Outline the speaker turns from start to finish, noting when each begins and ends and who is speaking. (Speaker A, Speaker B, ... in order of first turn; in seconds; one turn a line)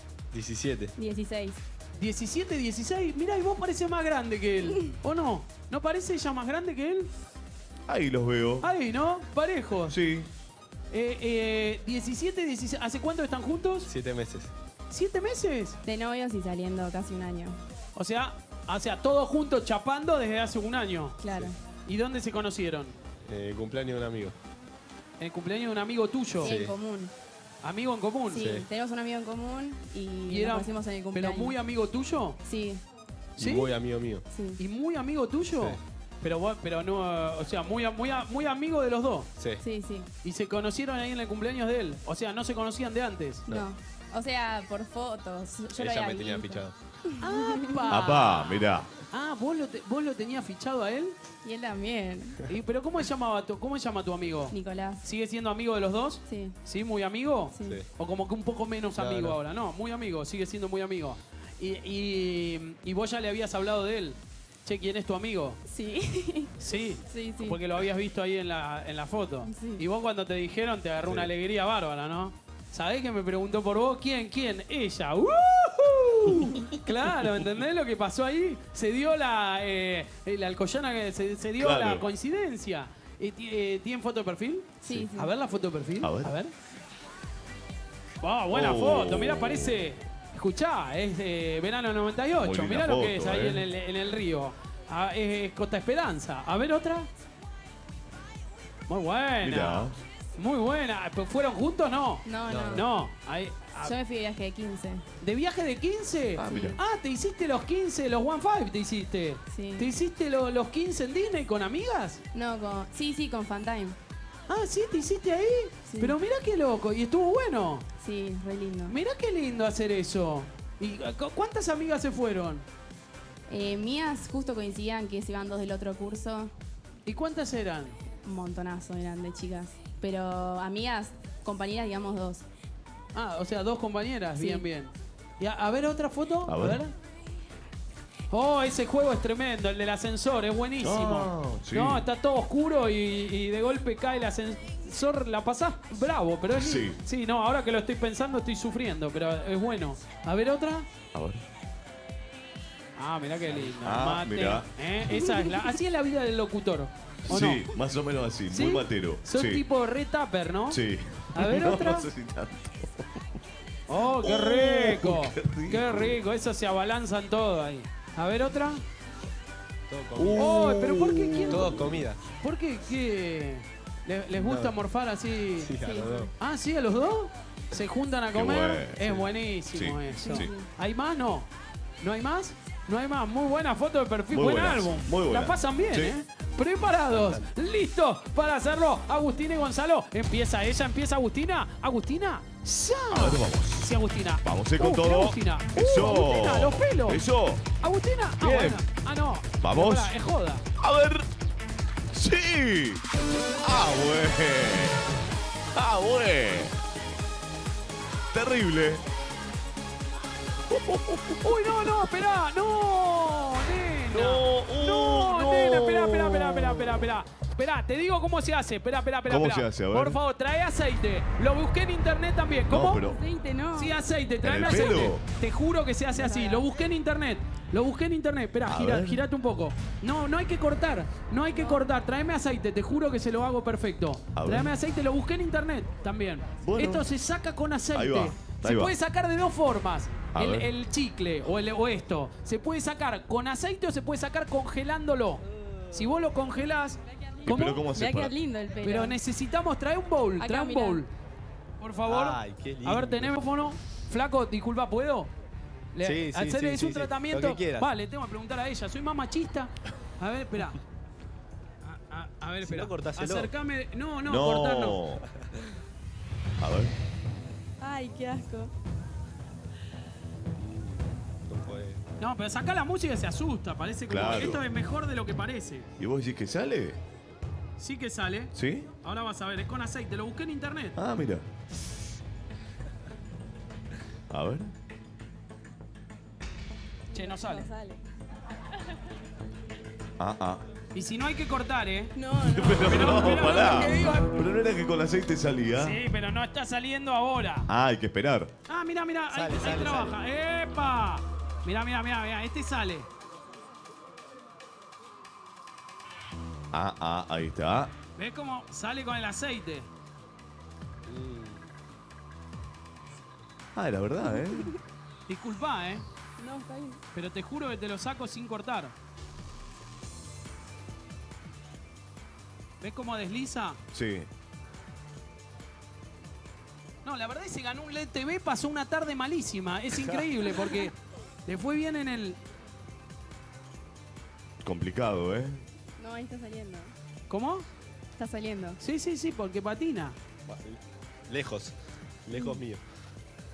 Speaker A: 0.3-0.9
Speaker B: 1.0-1.6
Speaker C: 2.0-7.1
Speaker B: 4.6-4.9
Speaker D: 7.9-8.7
Speaker C: 8.6-10.0
Speaker D: 9.9-10.3
Speaker C: 10.9-13.9
Speaker A: 13.9-14.5
Speaker C: 14.9-15.8
Speaker B: 15.8-17.6
Speaker C: 17.9-21.2
Speaker B: 21.2-21.6
Speaker C: 21.8-23.0
Speaker A: 23.2-24.4
Speaker C: 25.2-26.5
Speaker B: 26.4-27.1
Speaker A: 26.4-26.7
Speaker C: 27.6-28.5
Speaker B: 28.3-31.5
Speaker A: 28.4-28.7
Speaker C: 30.3-32.4
Speaker B: 32.4-32.8
Speaker A: 33.4-34.2
Speaker C: 33.4-33.7
Speaker B: 34.3-34.6
Speaker C: 34.6-39.3
Speaker A: 35.5-35.8
Speaker A: 39.4-39.6
Speaker B: 39.6-40.1
Speaker C: 40.2-43.5
Speaker B: 43.5-47.9
Speaker A: 45.7-46.8
Speaker C: 47.2-51.2
Speaker D: 47.9-48.9
Speaker B: 51.4-52.5
Speaker C: 52.4-65.6
Speaker B: 54.5-55.0
Speaker B: 56.3-56.6
Speaker B: 57.5-57.8
Speaker A: 58.9-59.4
Speaker B: 65.7-66.5
Speaker C: 66.6-86.5
Speaker B: 67.1-67.6
Speaker B: 69.4-69.8
Speaker D: 81.6-82.1
Speaker B: 84.8-85.3
Speaker D: 86.0-86.3
Speaker C: 88.2-97.1
Speaker D: 88.5-89.8
Speaker D: 92.4-93.6
Speaker C: 98.9-103.9
Speaker D: 99.4-100.0
Speaker B: 102.2-102.8
Speaker A: 102.5-102.8
Speaker B: 103.8-105.0
Speaker C: 105.2-112.2
Speaker D: 106.3-106.8
Speaker B: 106.4-106.8
Speaker B: 109.5-109.9
Speaker B: 112.3-114.0
Speaker C: 114.5-117.8
Speaker B: 115.9-116.2
Speaker B: 118.0-119.0
Speaker C: 118.9-122.7
Speaker B: 123.5-126.5
Speaker C: 127.0-128.0
Speaker B: 128.2-132.4
Speaker C: 133.1-136.9
Speaker B: 134.3-134.6
Speaker D: 136.4-136.8
Speaker C: 138.3-150.9
Speaker D: 140.8-142.0
Speaker D: 146.5-147.0
Speaker D: 151.1-151.4
Speaker C: 152.9-157.7
Speaker D: 153.6-154.8
Speaker B: 155.1-155.7
Speaker D: 157.2-159.6
Speaker C: 158.5-160.8
Speaker D: 160.7-163.2
Speaker C: 161.3-162.1
Speaker C: 163.9-168.8
Speaker D: 164.2-166.2
Speaker A: 169.9-170.6
Speaker D: 170.2-171.9
Speaker C: 170.3-175.7
Speaker A: 171.5-172.2
Speaker A: 174.3-174.8
Speaker A: 175.5-176.3
Speaker B: 175.8-176.3
Speaker C: 176.4-181.5
Speaker D: 178.3-180.5
Speaker B: 180.1-180.7
Speaker C: 182.0-197.2
Speaker D: 184.3-186.1
Speaker A: 187.1-187.5
Speaker D: 193.1-197.6
Speaker C: 197.8-200.6
Speaker D: 198.4-198.8
Speaker D: 199.6-200.2
Speaker D: 200.8-201.2
Speaker D: 202.1-203.0
Speaker D: 203.6-205.2
Speaker D: 205.7-206.7
Speaker D: 208.3-209.0
Speaker D: 210.7-211.9
Speaker C: 211.4-223.0
Speaker D: 214.1-217.1
Speaker D: 219.3-220.2
Speaker D: 222.7-223.2
Speaker B: 222.9-223.9
Speaker C: 223.7-247.8
Speaker D: 224.4-225.2
Speaker B: 226.1-226.6
Speaker D: 228.7-229.2
Speaker B: 231.5-231.9
Speaker D: 234.3-234.7
Speaker D: 236.6-237.1
Speaker D: 237.9-238.9
Speaker D: 240.3-240.7
Speaker D: 247.4-248.3
Speaker B: 247.4-249.1
Speaker C: 248.8-251.1
Speaker B: 250.4-251.0
Speaker C: 251.8-255.3
Speaker A: 252.1-253.4
Speaker C: 255.9-260.8
Speaker A: 256.0-257.9
Speaker C: 261.8-265.0
Speaker A: 262.6-263.5
Speaker D: 264.2-265.2
Speaker D: 266.6-266.9
Speaker B: 267.8-268.7
Speaker A: 270.6-272.0
Speaker C: 272.2-275.9
Speaker D: 274.1-274.6
Speaker D: 276.0-277.0
Speaker C: 277.8-281.0
Speaker D: 278.5-278.9
Speaker D: 280.9-281.5
Speaker D: 284.3-284.7
Speaker B: 287.1-288.0
Speaker C: 287.1-287.6
Speaker D: 290.2-290.6
Speaker C: 290.9-292.2
Speaker B: 292.1-294.3
Speaker D: 292.4-296.0
Speaker C: 292.8-294.3
Speaker C: 295.7-297.7
Speaker D: 297.7-298.5
Speaker C: 298.7-303.1
Speaker A: 299.3-300.2
Speaker D: 306.7-307.9
Speaker C: 308.1-309.9
Speaker A: 311.1-311.6
Speaker D: 313.7-314.7
Speaker B: 314.2-314.8
Speaker C: 315.3-316.0
Speaker B: 316.4-317.0
Speaker C: 317.1-318.9
Speaker C: 322.8-323.8
Speaker D: 323.9-324.3
Speaker C: 327.0-330.9
Speaker D: 329.9-330.3
Speaker C: 331.4-332.4
Speaker D: 334.6-335.6
Speaker B: 336.0-336.9
Speaker C: 337.3-337.6
Speaker B: 338.2-338.8
Speaker C: 338.8-340.2
Speaker A: 340.4-342.8
Speaker B: 342.3-342.6